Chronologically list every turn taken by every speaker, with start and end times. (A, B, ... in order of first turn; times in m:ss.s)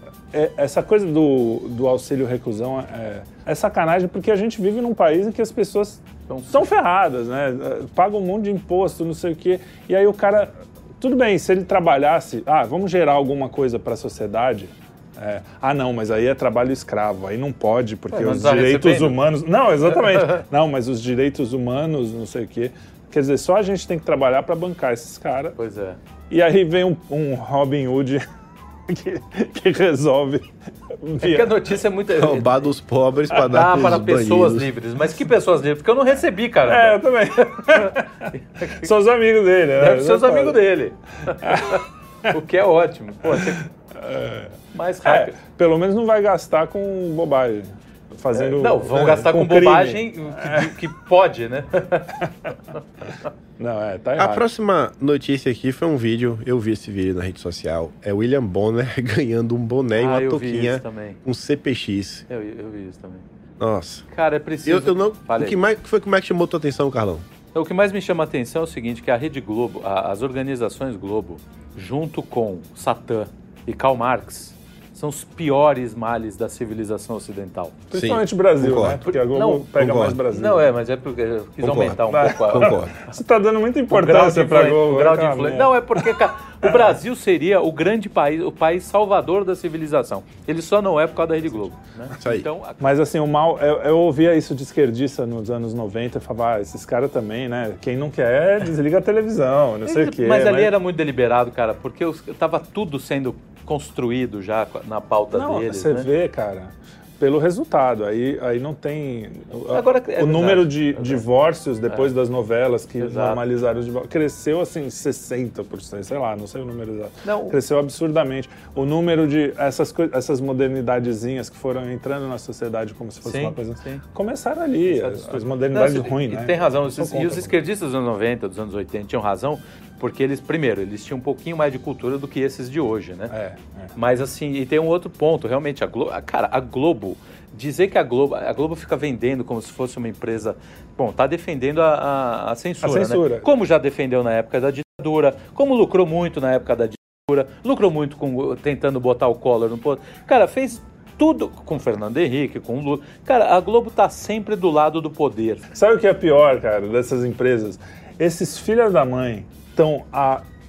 0:00.3-0:25.6 A
0:06.3-0:06.6 B
0:18.1-0:19.2 B
0:20.0-0:20.4 B
0:25.6-0:26.0 B
0:26.3-0:28.2 A
0:28.9-0:31.6 A
0:31.2-0:32.7 B
0:32.1-0:34.7 C
0:33.3-0:38.9 B
0:36.7-0:40.6 A
0:39.8-0:43.7 B
0:41.4-0:42.4 A
0:43.2-0:50.8 A
0:44.7-0:45.4 B
0:48.3-0:52.2 B
0:52.7-0:53.3 B
0:53.6-0:54.5 A
0:54.2-1:02.2 C
1:00.0-1:01.2 B
1:02.3-1:03.2 B
1:03.6-1:04.1 C
1:04.1-1:05.6 B
1:04.6-1:07.2 C
1:07.5-1:17.8 B
1:17.9-1:20.7 A
1:17.9-1:19.0 C
1:19.0-1:23.1 B
1:19.8-1:20.2 C
1:21.6-1:22.9 C
1:22.1-1:26.1 A
1:23.9-1:32.8 B
1:32.2-1:32.5 C
1:32.8-1:40.7 A
1:39.9-1:46.1 B
1:45.3-2:07.6 A
1:49.7-1:51.3 B
1:53.0-1:53.4 B
1:57.2-1:57.6 B
2:03.2-2:04.0 B
2:04.9-2:13.3 B
2:13.3-2:13.9 A
2:14.0-2:35.7 B
2:22.8-2:23.5 A
2:35.7-2:40.4 A